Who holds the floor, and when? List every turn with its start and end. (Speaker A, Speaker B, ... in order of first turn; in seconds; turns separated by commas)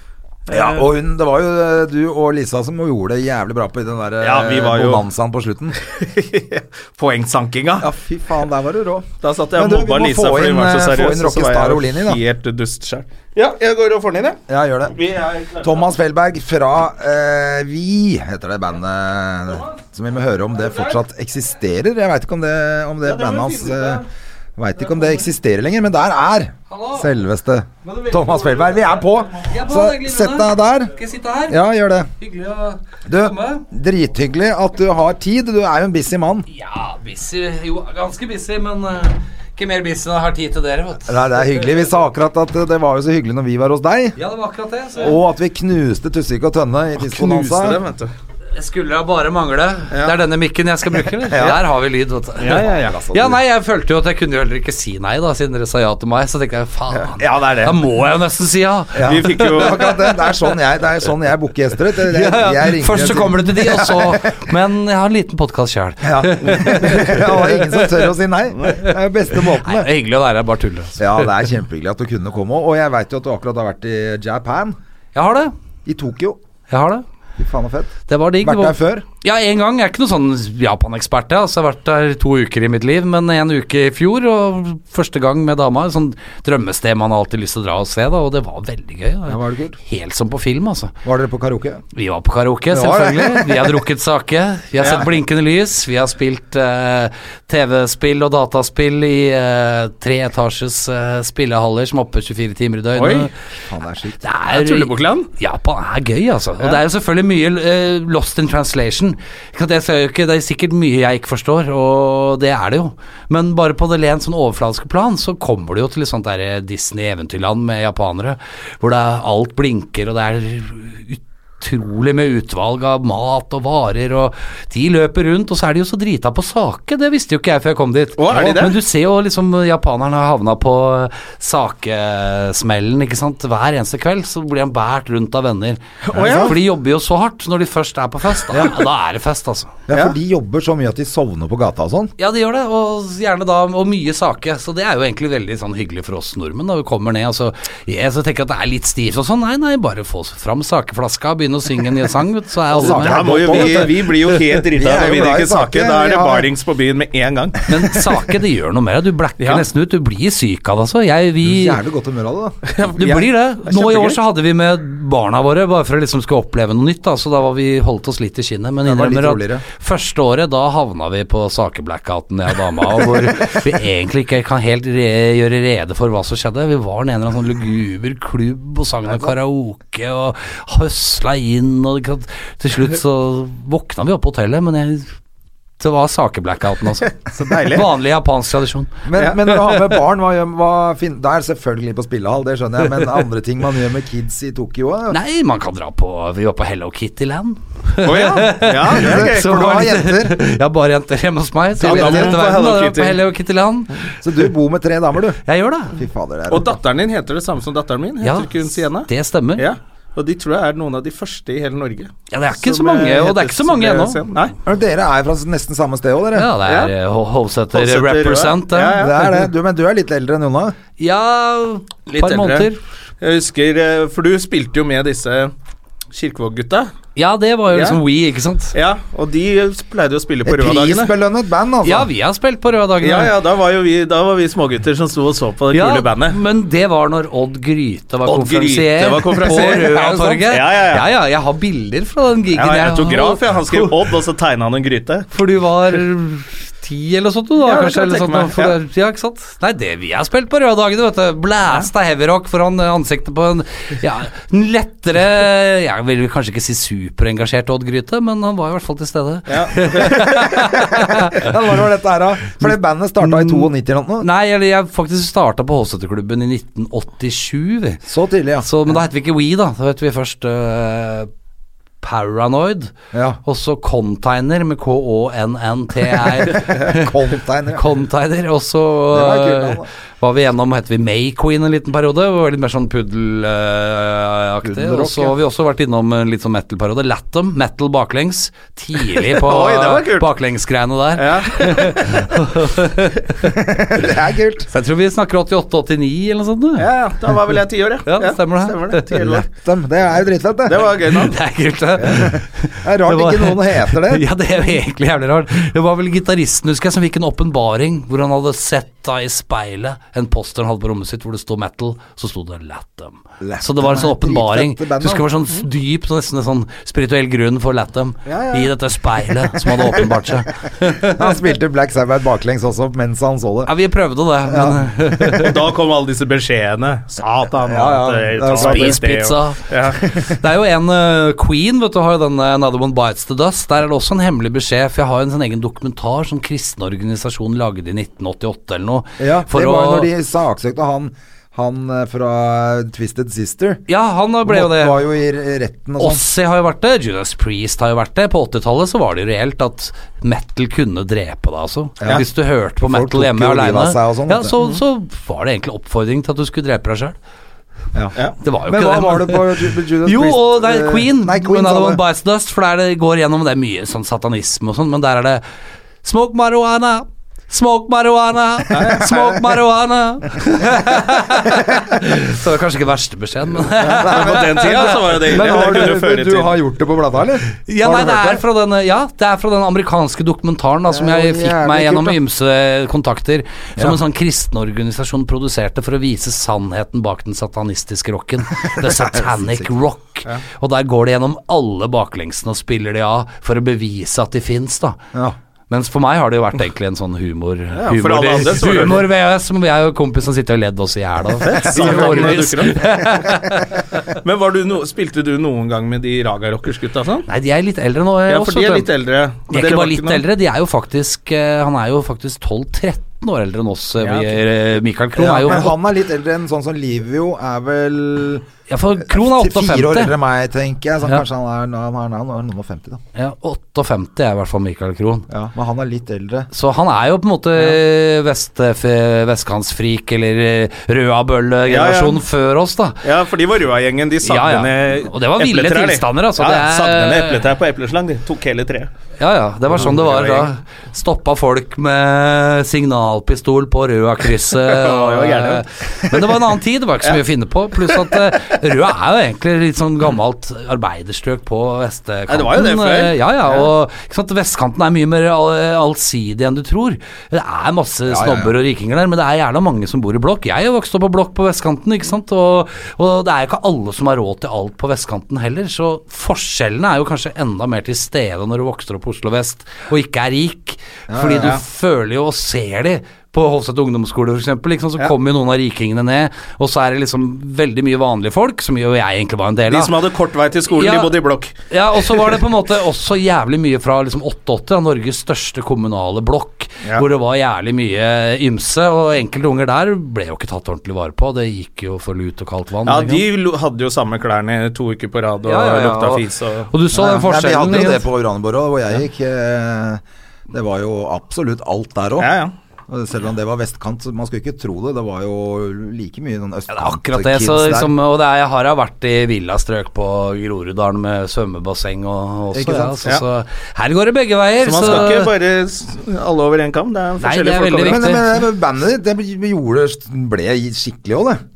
Speaker A: 0.5-0.9, Speaker B: 0.5-5.8, Speaker A: 4.2-5.0, Speaker A: 5.8-7.9, Speaker B: 7.8-12.2, Speaker A: 9.2-15.9, Speaker B: 14.5-14.9, Speaker B: 15.6-24.0, Speaker A: 23.0-24.0, Speaker B: 24.6-30.9, Speaker C: 26.7-27.1, Speaker A: 27.9-28.8, Speaker C: 29.4-31.6, Speaker B: 31.5-32.1, Speaker C: 32.2-33.6, Speaker B: 33.1-36.5, Speaker C: 36.5-41.1, Speaker B: 41.1-44.1, Speaker C: 44.1-45.2, Speaker B: 45.0-47.8, Speaker A: 47.0-48.1, Speaker C: 48.5-60.0, Speaker B: 51.3-51.6, Speaker A: 52.4-52.9, Speaker B: 52.5-53.4, Speaker A: 57.0-57.7, Speaker B: 58.9-64.3, Speaker A: 59.0-59.9, Speaker C: 62.0-68.0, Speaker B: 66.0-69.9, Speaker C: 68.7-71.3, Speaker B: 71.0-74.8, Speaker C: 75.1-75.5, Speaker B: 75.8-76.4, Speaker C: 76.7-77.0, Speaker B: 77.4-79.0, Speaker C: 78.1-90.9, Speaker B: 89.3-89.8, Speaker B: 91.0-91.8, Speaker C: 91.9-103.3, Speaker B: 92.7-93.8, Speaker A: 102.9-103.3, Speaker B: 103.6-104.2, Speaker C: 104.2-139.7, Speaker A: 104.5-105.3, Speaker A: 128.2-128.8, Speaker A: 136.0-136.6, Speaker B: 136.1-136.5, Speaker B: 138.5-138.8, Speaker B: 139.9-142.1, Speaker A: 139.9-140.2, Speaker C: 142.2-153.9, Speaker B: 152.7-156.5, Speaker A: 152.8-157.7, Speaker C: 157.6-161.8, Speaker A: 159.4-159.7, Speaker B: 161.4-162.7, Speaker A: 162.7-164.2, Speaker C: 162.9-185.1, Speaker B: 168.8-169.6, Speaker C: 185.8-189.0, Speaker A: 187.2-187.9, Speaker B: 189.0-195.2, Speaker A: 189.1-189.4, Speaker C: 195.1-204.0, Speaker A: 198.0-199.7, Speaker B: 198.8-200.4, Speaker B: 201.8-202.4, Speaker A: 201.8-203.2, Speaker B: 204.2-206.8, Speaker C: 205.4-206.0, Speaker A: 206.5-214.5, Speaker C: 208.2-209.7, Speaker C: 212.3-214.2, Speaker B: 214.6-216.5, Speaker C: 216.3-219.0, Speaker A: 216.7-216.9, Speaker A: 217.7-219.5, Speaker B: 218.9-220.8, Speaker C: 221.0-222.8, Speaker A: 222.1-222.7, Speaker A: 223.2-225.5, Speaker A: 226.1-226.9, Speaker C: 227.2-228.8, Speaker A: 227.7-228.0, Speaker A: 228.7-231.1, Speaker B: 230.4-232.1, Speaker C: 231.8-233.3, Speaker A: 233.0-236.4, Speaker C: 235.7-243.9, Speaker A: 238.2-241.1, Speaker B: 239.4-240.5, Speaker A: 242.5-245.3, Speaker C: 245.3-261.5, Speaker A: 247.6-248.8, Speaker A: 259.5-260.4, Speaker B: 260.6-264.3, Speaker C: 262.6-263.7, Speaker C: 264.2-268.0, Speaker B: 268.1-268.7, Speaker C: 268.6-271.3, Speaker C: 272.0-277.2, Speaker B: 273.1-273.4, Speaker B: 276.4-277.8, Speaker C: 277.7-293.6, Speaker B: 279.1-279.9, Speaker B: 284.6-285.4, Speaker A: 289.1-290.3, Speaker A: 291.1-292.3, Speaker B: 293.4-294.7, Speaker C: 294.7-296.9, Speaker A: 296.8-299.4, Speaker C: 298.1-299.2, Speaker B: 299.1-300.9, Speaker A: 300.6-301.4, Speaker C: 301.1-321.3, Speaker B: 302.0-304.2, Speaker B: 313.4-315.3, Speaker A: 318.3-318.7, Speaker B: 321.0-323.7, Speaker C: 323.6-325.6, Speaker B: 324.4-325.3, Speaker A: 325.4-330.0, Speaker B: 327.6-329.0, Speaker C: 328.5-340.1, Speaker B: 339.2-343.8, Speaker C: 343.9-345.0, Speaker B: 344.4-346.2, Speaker C: 346.0-357.1, Speaker B: 352.0-352.3, Speaker B: 352.8-354.5, Speaker B: 357.9-362.0, Speaker C: 358.4-365.4, Speaker C: 366.0-375.4, Speaker A: 368.7-369.4, Speaker B: 371.5-371.8, Speaker B: 373.7-378.4, Speaker A: 374.0-376.5, Speaker C: 377.6-395.0, Speaker B: 380.9-382.2, Speaker B: 388.6-389.8, Speaker C: 395.7-403.8, Speaker A: 397.8-399.1, Speaker A: 401.4-402.8, Speaker B: 401.7-402.4, Speaker A: 404.1-407.3, Speaker C: 407.3-408.9, Speaker A: 408.3-410.2, Speaker C: 409.5-415.8, Speaker A: 414.0-414.4, Speaker B: 415.2-423.0, Speaker C: 418.7-420.1, Speaker C: 423.1-425.3, Speaker B: 425.3-426.5, Speaker C: 426.5-433.0, Speaker A: 431.7-432.2, Speaker A: 433.0-438.9, Speaker C: 434.2-437.4, Speaker C: 439.2-480.0, Speaker A: 439.7-440.5, Speaker A: 444.5-446.4, Speaker A: 447.8-448.2, Speaker A: 452.3-453.7, Speaker B: 458.1-458.5, Speaker B: 471.1-471.6, Speaker A: 479.7-482.3, Speaker C: 480.7-481.1, Speaker C: 481.7-493.2, Speaker A: 492.9-496.7, Speaker C: 495.4-498.1, Speaker B: 496.9-502.3, Speaker A: 502.2-502.5, Speaker B: 502.9-507.9, Speaker C: 506.7-515.3, Speaker B: 512.5-513.1, Speaker A: 514.6-518.2, Speaker C: 517.2-518.3, Speaker B: 517.8-521.4